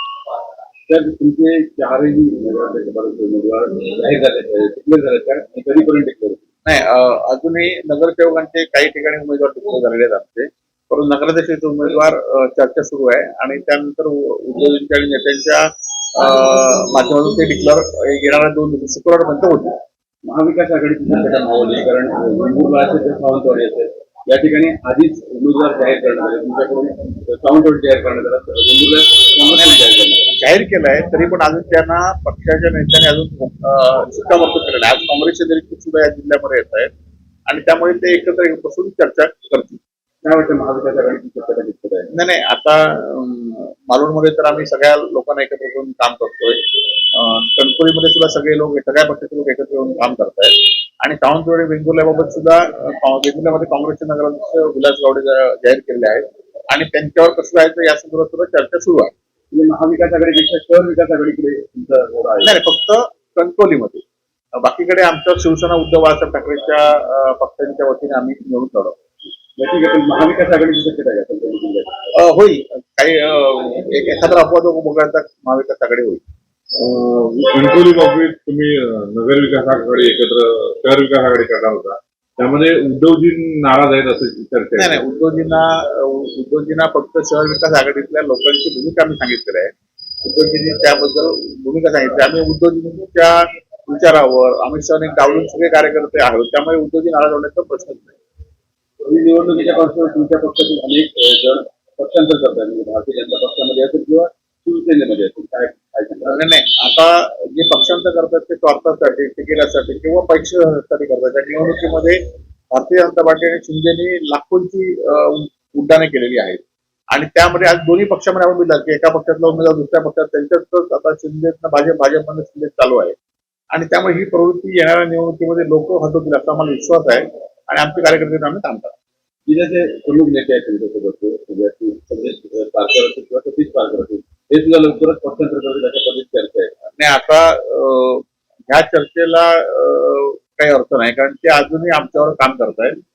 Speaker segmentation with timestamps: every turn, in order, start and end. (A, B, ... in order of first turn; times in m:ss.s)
0:00.9-0:06.4 A
0:06.7-0:15.6 B
0:16.2-0:19.8 B
0:20.2-0:30.4 A
0:30.4-0:36.9 B
0:37.5-0:39.8 B
0:40.2-0:42.1 A
0:42.1-0:59.1 B
0:59.5-1:02.6 A
1:02.4-1:04.0 B
1:04.6-1:09.0 B
1:09.6-1:11.9 A
1:12.2-1:16.2 B
1:16.8-1:25.0 C
1:24.8-1:29.7 B
1:30.2-1:38.2 B
1:39.0-1:46.4 A
1:46.3-1:52.2 B
1:52.7-2:03.2 B
2:03.7-2:08.9 B
2:09.5-2:16.8 A
2:17.0-2:23.0 B